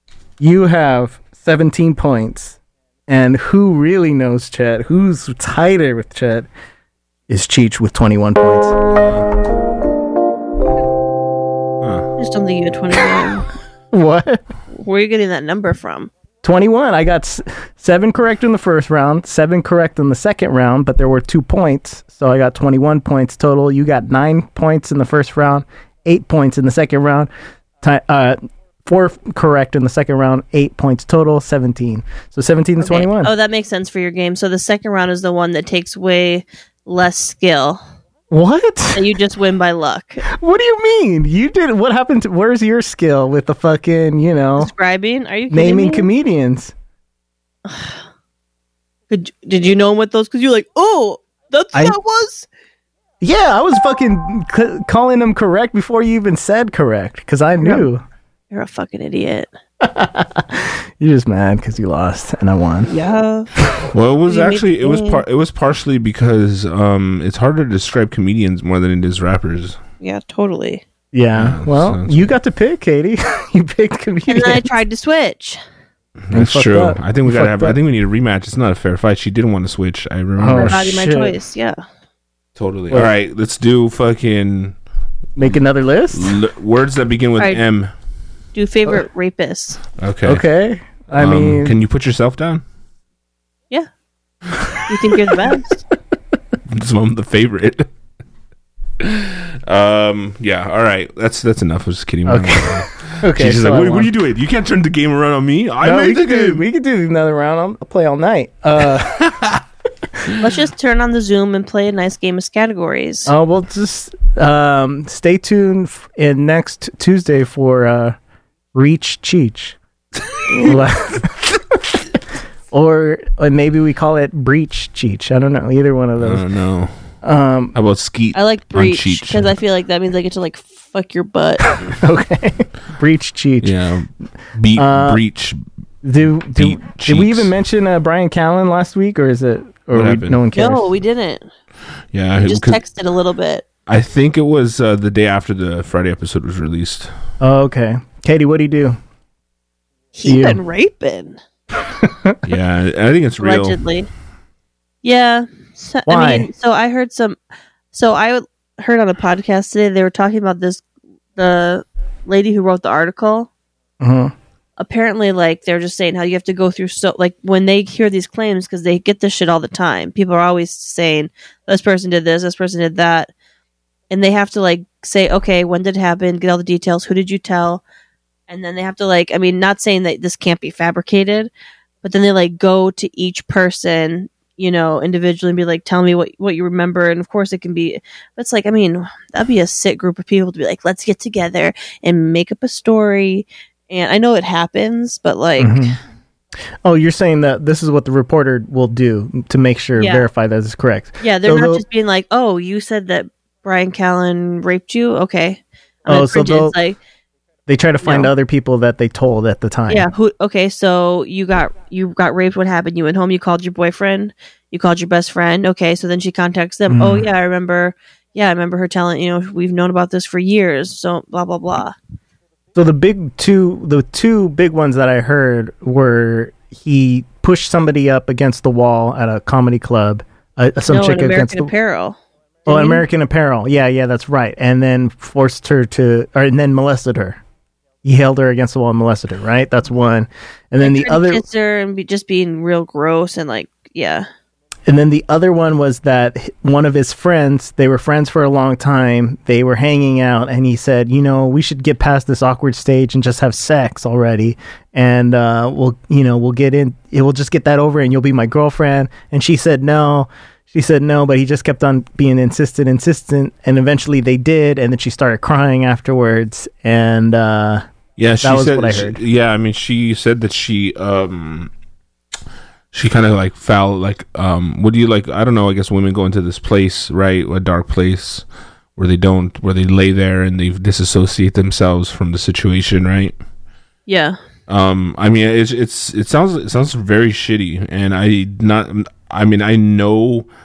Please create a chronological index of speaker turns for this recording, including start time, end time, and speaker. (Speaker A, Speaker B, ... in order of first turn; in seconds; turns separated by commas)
Speaker A: 0.4-6.5, Speaker A: 7.3-8.7, Speaker B: 8.9-9.2, Speaker B: 11.8-12.1, Speaker C: 12.2-13.5, Speaker A: 13.9-14.4, Speaker C: 14.7-16.1, Speaker A: 16.4-27.3, Speaker A: 27.8-33.3, Speaker C: 32.8-37.8, Speaker A: 38.3-39.1, Speaker C: 38.9-40.2, Speaker A: 40.3-44.7, Speaker C: 44.6-46.1, Speaker A: 45.5-46.7, Speaker C: 47.6-48.0, Speaker C: 49.1-52.5, Speaker A: 53.2-58.0, Speaker C: 57.6-57.9, Speaker C: 58.5-59.5, Speaker A: 59.8-62.9, Speaker C: 62.9-63.5, Speaker B: 63.9-69.8, Speaker C: 64.3-65.2, Speaker C: 70.0-70.8, Speaker A: 71.1-74.7, Speaker B: 71.3-72.3, Speaker C: 74.3-75.6, Speaker B: 76.3-80.9, Speaker A: 76.3-77.8, Speaker A: 80.4-81.3, Speaker C: 80.5-81.8, Speaker B: 82.5-84.8, Speaker A: 85.3-86.4, Speaker B: 86.1-87.9, Speaker C: 88.5-89.8, Speaker B: 90.0-90.5, Speaker A: 90.2-91.8, Speaker B: 91.2-92.6, Speaker C: 94.9-95.8, Speaker B: 96.7-97.9, Speaker B: 99.0-106.6, Speaker A: 102.2-104.1, Speaker A: 105.8-109.3, Speaker B: 109.2-109.6, Speaker C: 110.4-113.3, Speaker A: 113.2-118.2, Speaker A: 118.7-119.8, Speaker A: 120.5-122.0, Speaker A: 122.7-126.4, Speaker B: 126.2-126.9, Speaker A: 127.2-127.7, Speaker B: 127.7-129.5, Speaker C: 128.3-131.7, Speaker A: 131.8-133.7, Speaker B: 133.6-135.6, Speaker A: 134.8-135.2, Speaker A: 136.0-140.9, Speaker B: 136.5-137.5, Speaker B: 139.9-140.4, Speaker C: 140.5-141.5, Speaker B: 142.1-142.8, Speaker C: 142.4-143.6, Speaker B: 143.9-147.1, Speaker A: 147.4-149.0, Speaker C: 150.1-151.4, Speaker A: 150.2-150.6, Speaker A: 152.0-152.4, Speaker B: 152.4-153.8, Speaker C: 153.4-154.1, Speaker C: 155.0-157.4, Speaker A: 156.1-156.5, Speaker C: 157.9-160.8, Speaker C: 161.3-163.5, Speaker A: 164.0-164.3, Speaker C: 164.8-173.3, Speaker C: 174.1-177.8, Speaker C: 178.5-181.5, Speaker C: 182.0-195.9, Speaker A: 195.6-196.0, Speaker A: 196.8-201.8, Speaker C: 200.0-200.2, Speaker C: 201.2-207.0, Speaker A: 206.1-206.8, Speaker A: 207.7-210.1, Speaker C: 208.0-208.3, Speaker C: 209.9-221.9, Speaker A: 216.9-217.3, Speaker A: 222.7-231.7, Speaker C: 230.9-233.0, Speaker A: 232.7-237.4, Speaker A: 238.0-241.4, Speaker C: 240.8-244.3, Speaker A: 244.9-267.8, Speaker B: 268.2-271.7, Speaker A: 268.4-269.2, Speaker B: 272.9-278.4, Speaker B: 278.9-283.3, Speaker C: 284.1-284.4, Speaker B: 284.7-290.5